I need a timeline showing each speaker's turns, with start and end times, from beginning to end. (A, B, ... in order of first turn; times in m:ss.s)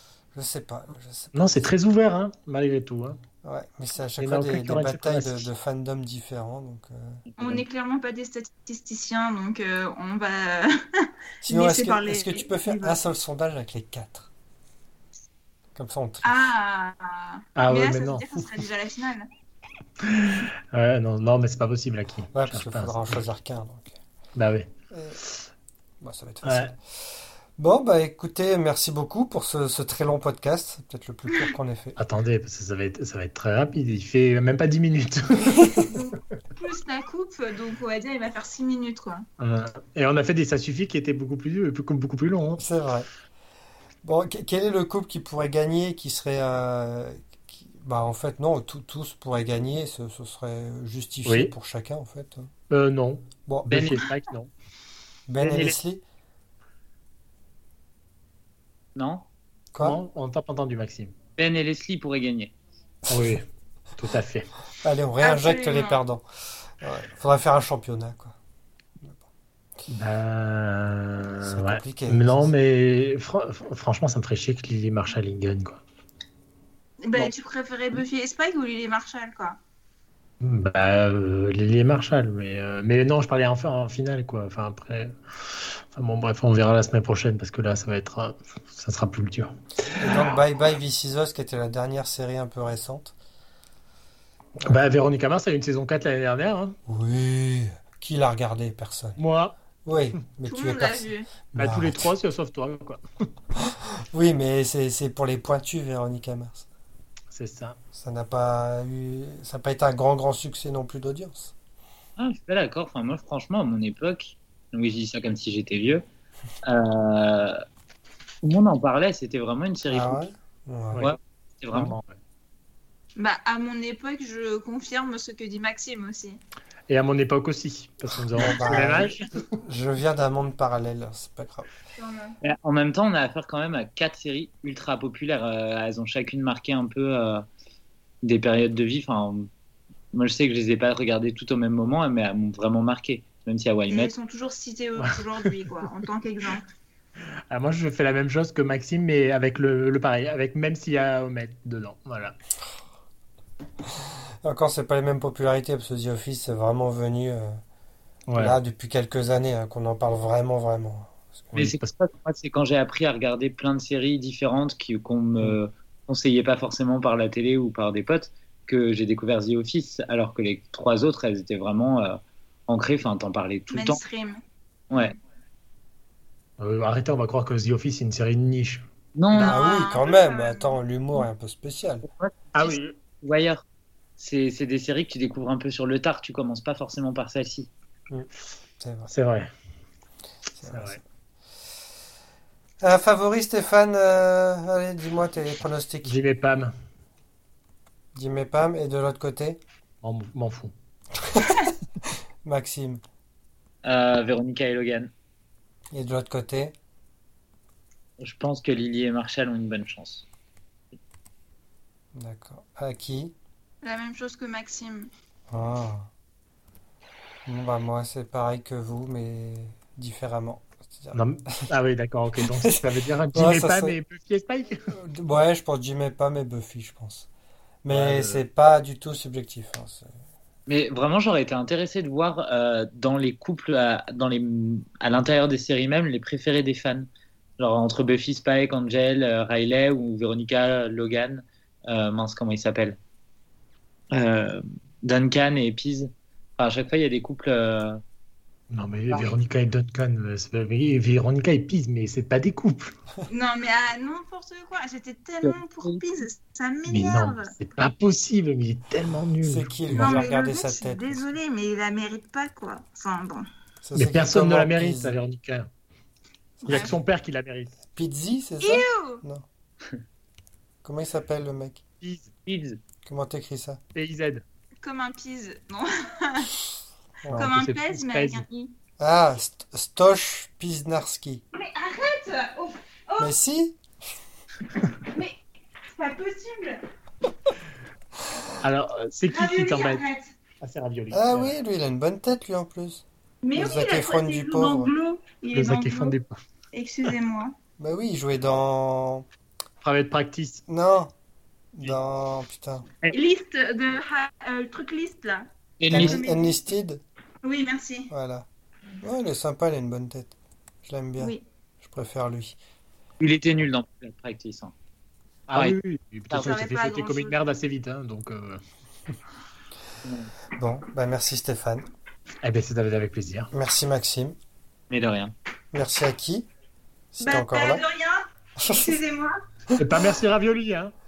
0:00.3-0:01.7 A
0:01.3-0:03.2 B
0:03.4-0:07.2 A
0:04.2-0:05.5 B
0:07.3-0:07.6 C
0:07.4-0:13.0 D
0:11.4-0:14.3 A
0:15.8-0:16.5 A
0:16.2-0:19.2 D
0:17.6-0:18.3 B
0:20.1-0:23.2 B
0:22.3-0:24.0 A
0:24.4-0:24.7 B
0:24.9-0:25.2 A
0:26.0-0:26.8 A
0:26.4-0:26.7 B
0:27.6-0:32.0 A
0:32.0-0:35.8 B
0:35.9-0:39.2 D
0:39.4-0:42.6 B
0:42.6-0:43.1 A
0:44.0-0:52.5 A
0:51.2-0:51.5 B
0:52.7-0:54.5 B
0:53.5-0:53.8 A
0:53.7-0:54.0 C
0:55.3-0:56.0 A
0:55.4-0:55.7 C
0:59.0-0:59.3 C
0:59.7-1:00.0 A
0:59.8-1:01.1 B
1:01.4-1:02.5 C
1:03.1-1:03.4 B
1:04.0-1:04.5 B
1:04.8-1:06.2 A
1:05.2-1:06.0 D
1:06.8-1:08.4 A
1:09.9-1:15.8 B
1:11.4-1:12.5 A
1:17.0-1:19.6 D
1:20.4-1:30.3 B
1:30.0-1:33.2 A
1:34.6-1:36.8 B
1:36.9-1:39.2 A
1:39.2-1:39.6 B
1:39.8-1:42.1 A
1:40.5-1:41.3 D
1:41.5-1:43.0 B
1:44.1-1:46.7 A
1:47.3-1:47.8 B
1:47.9-1:51.5 A
1:52.2-1:56.0 C
1:56.7-1:57.6 C
1:58.4-2:00.3 C
1:59.9-2:01.1 A
2:01.0-2:02.0 C
2:01.7-2:02.2 B
2:03.2-2:06.4 D
2:06.9-2:09.3 B
2:08.4-2:11.7 A
2:12.0-2:12.4 D
2:12.4-2:17.4 C
2:18.2-2:19.5 C
2:20.1-2:24.1 C
2:23.9-2:26.6 D
2:27.5-2:32.4 B
2:34.4-2:37.6 A
2:38.3-2:38.6 B
2:38.4-2:41.6 A
2:41.5-2:41.9 B
2:41.6-2:54.0 C
2:53.7-2:54.4 D
2:56.6-2:58.8 B
2:59.2-2:59.6 C
2:59.3-3:01.2 D
2:59.4-3:02.0 A
3:02.0-3:03.6 C
3:02.5-3:02.9 B
3:04.2-3:07.7 C
3:08.8-3:09.1 A
3:09.1-3:09.5 B
3:10.6-3:11.0 A
3:10.6-3:11.0 B
3:12.8-3:16.2 A
3:16.0-3:16.7 B
3:18.1-3:19.6 A
3:20.0-3:20.7 B
3:21.3-3:21.7 A
3:22.4-3:23.0 A
3:23.8-3:25.1 C
3:25.9-3:26.7 A
3:28.2-3:30.3 C
3:32.2-3:33.4 A
3:33.8-3:35.1 D
3:35.5-3:36.1 A
3:37.5-3:41.3 A
3:41.1-3:44.8 B
3:43.3-3:44.0 A
3:44.9-3:47.3 A
3:47.8-3:50.1 A
3:47.9-3:48.4 B
3:50.7-4:03.0 C
4:04.1-4:08.0 C
4:08.7-4:12.9 B
4:13.3-4:17.5 D
4:15.4-4:16.0 C
4:16.9-4:20.2 B
4:19.4-4:21.4 A
4:20.0-4:23.4 D
4:23.8-4:25.2 A
4:24.0-4:25.7 B
4:26.6-4:27.0 A
4:26.7-4:26.9 D
4:26.7-4:27.7 B
4:27.9-4:29.4 A
4:28.6-4:29.2 D
4:30.8-4:31.8 A
4:32.0-4:32.3 B
4:32.4-4:32.8 C
4:33.1-4:33.8 A
4:34.0-4:34.4 B
4:34.8-4:36.6 D
4:37.2-4:37.5 A
4:37.3-4:38.7 D
4:37.3-4:38.4 B
4:39.0-4:41.4 A
4:41.5-4:43.3 D
4:43.2-4:43.8 A
4:45.1-4:45.4 D
4:45.9-4:46.8 D
4:48.6-4:50.0 B
4:49.3-4:50.3 D
4:50.6-4:51.5 B
4:51.1-4:53.0 A
4:53.4-4:56.2 D
4:53.6-4:54.9 A
4:55.5-4:56.4 B
4:56.7-4:57.6 D
4:57.8-4:59.3 A
4:59.8-5:00.6 B
5:00.7-5:01.1 A
5:01.8-5:02.9 A
5:03.1-5:06.6 D
5:05.8-5:06.2 C
5:05.9-5:07.0 A
5:07.4-5:08.1 D
5:08.1-5:08.5 A
5:09.0-5:12.6 A
5:13.2-5:14.7 C
5:15.5-5:18.6 B
5:15.5-5:15.8 C
5:16.3-5:16.6 C
5:16.4-5:17.5 D
5:20.0-5:20.3 C
5:20.6-5:21.8 A
5:22.4-5:23.5 B
5:23.5-5:24.4 A
5:24.9-5:25.3 C
5:25.7-5:26.5 A
5:27.1-5:27.8 A
5:27.2-5:29.4 D
5:28.6-5:29.0 A
5:29.8-5:30.9 B